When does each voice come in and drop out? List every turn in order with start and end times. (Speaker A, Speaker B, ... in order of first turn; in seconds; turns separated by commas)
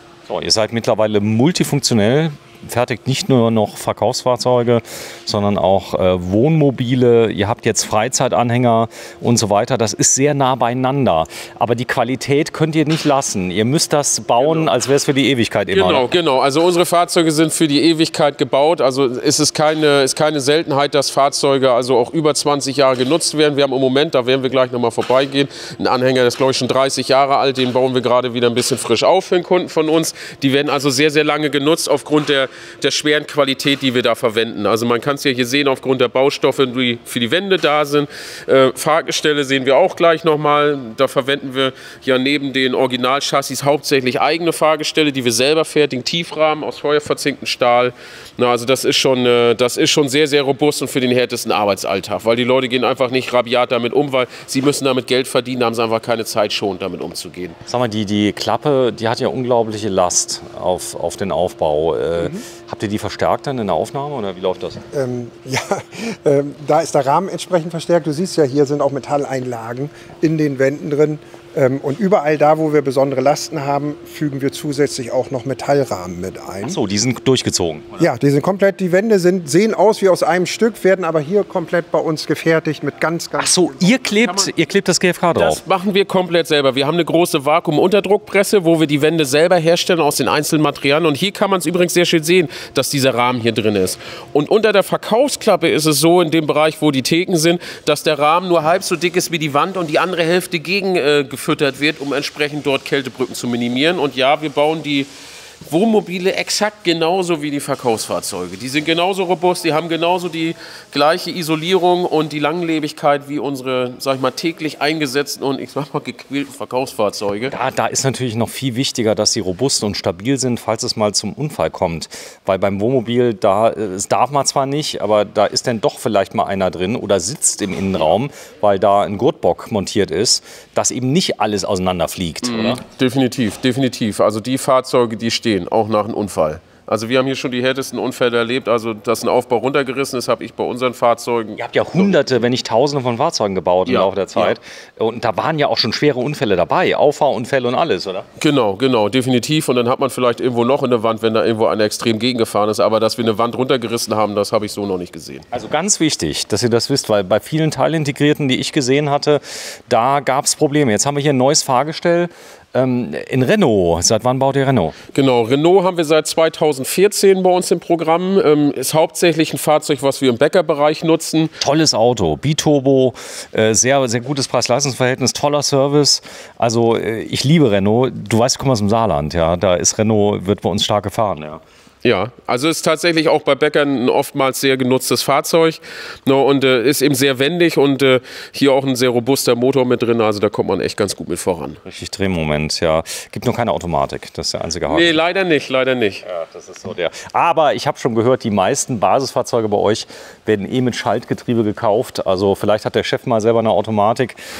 Speaker A: 0.3-16.0, Speaker B: 14.4-14.7, Speaker B: 15.7-57.6, Speaker A: 57.7-64.8, Speaker C: 62.2-62.4, Speaker C: 64.9-76.8, Speaker A: 76.6-78.0, Speaker C: 78.0-84.1, Speaker A: 83.4-85.6, Speaker B: 84.2-84.5, Speaker B: 85.3-105.1, Speaker B: 105.7-117.5, Speaker A: 117.5-132.8, Speaker B: 132.4-142.3, Speaker A: 141.6-148.2, Speaker B: 143.8-144.6, Speaker B: 148.4-155.5, Speaker A: 155.5-164.9, Speaker B: 165.1-171.6, Speaker A: 171.6-181.6, Speaker B: 182.0-191.8, Speaker A: 191.8-195.2, Speaker B: 194.9-196.2, Speaker A: 196.2-204.4